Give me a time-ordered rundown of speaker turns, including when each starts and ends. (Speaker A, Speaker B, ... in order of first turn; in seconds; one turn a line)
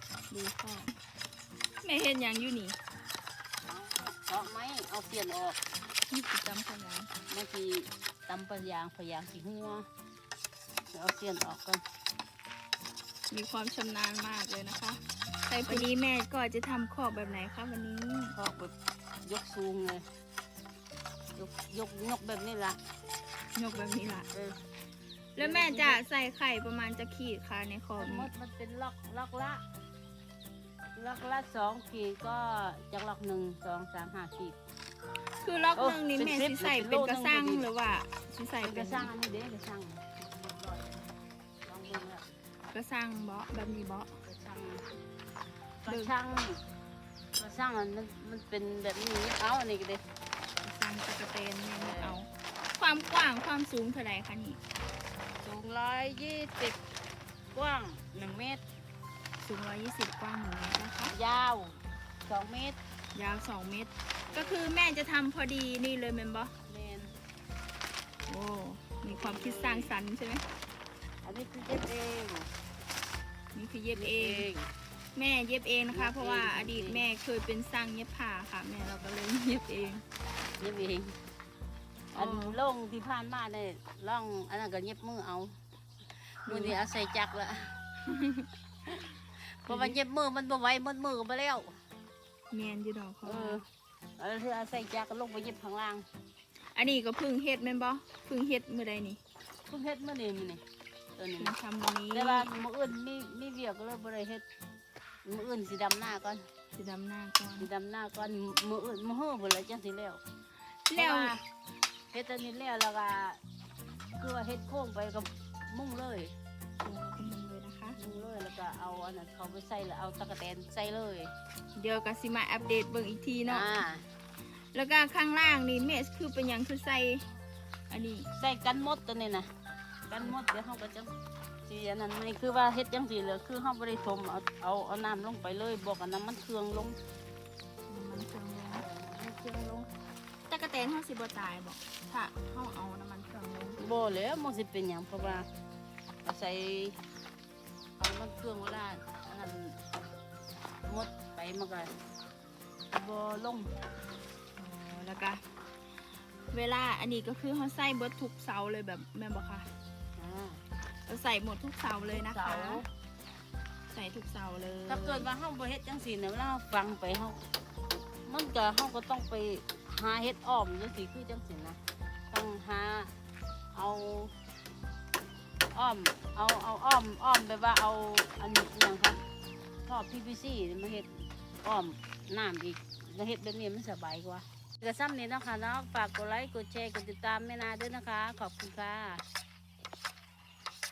Speaker A: 0.3-1.0
Speaker A: 1.8-2.8
Speaker B: 3.7-5.6
Speaker A: 6.1-7.1
Speaker B: 7.3-9.8
Speaker B: 10.9-11.8
Speaker A: 13.3-18.3
Speaker B: 18.3-18.7
Speaker B: 19.2-20.0
Speaker B: 21.4-22.8
Speaker A: 23.5-24.3
Speaker A: 25.4-28.3
Speaker B: 25.4-26.0
Speaker B: 28.0-29.6
Speaker B: 30.9-34.5
Speaker A: 35.4-39.1
Speaker B: 35.8-37.7
Speaker B: 38.6-42.3
Speaker A: 42.7-44.1
Speaker B: 44.2-44.8
Speaker B: 45.8-46.6
Speaker A: 45.9-46.1
Speaker B: 47.4-50.0
Speaker A: 50.6-54.6
Speaker B: 51.7-52.1
Speaker B: 55.4-56.8
Speaker B: 57.5-58.6
Speaker A: 59.4-61.1
Speaker B: 61.1-62.8
Speaker A: 63.1-66.5
Speaker B: 64.2-64.6
Speaker B: 66.7-67.1
Speaker A: 68.3-70.5
Speaker B: 69.1-69.9
Speaker B: 71.2-72.5
Speaker A: 73.5-74.5
Speaker B: 73.9-74.7
Speaker A: 75.1-80.0
Speaker B: 75.9-77.0
Speaker B: 80.6-81.1
Speaker A: 82.1-82.6
Speaker B: 82.1-85.5
Speaker B: 86.4-87.8
Speaker A: 86.5-86.8
Speaker A: 88.0-88.5
Speaker B: 89.6-91.7
Speaker A: 89.7-90.0
Speaker A: 92.5-93.6
Speaker B: 93.2-93.6
Speaker B: 94.2-96.0
Speaker A: 96.7-99.2
Speaker B: 99.7-100.6
Speaker B: 101.2-101.5
Speaker A: 101.4-102.5
Speaker B: 102.1-104.4
Speaker B: 105.2-106.4
Speaker A: 106.8-107.7
Speaker B: 107.6-110.2
Speaker A: 110.7-111.3
Speaker B: 110.9-111.4
Speaker B: 112.1-113.4
Speaker B: 114.2-116.3
Speaker A: 116.8-118.0
Speaker B: 118.0-121.3
Speaker A: 121.8-123.7
Speaker B: 123.5-124.0
Speaker A: 124.7-127.2
Speaker A: 127.9-128.3
Speaker B: 128.4-129.5
Speaker B: 130.1-131.1
Speaker B: 131.7-137.0
Speaker A: 137.9-138.8
Speaker B: 138.7-139.9
Speaker A: 140.5-143.9
Speaker B: 143.8-145.5
Speaker B: 146.2-146.9
Speaker B: 148.0-149.8
Speaker B: 150.9-151.9
Speaker B: 152.9-153.7
Speaker A: 154.6-155.4
Speaker A: 156.5-159.7
Speaker B: 160.2-160.6
Speaker A: 161.1-162.8
Speaker B: 162.0-162.8
Speaker A: 163.9-165.3
Speaker B: 164.9-167.4
Speaker B: 168.2-171.8
Speaker B: 172.3-173.1
Speaker B: 173.7-174.3
Speaker B: 175.7-179.2
Speaker B: 179.8-189.2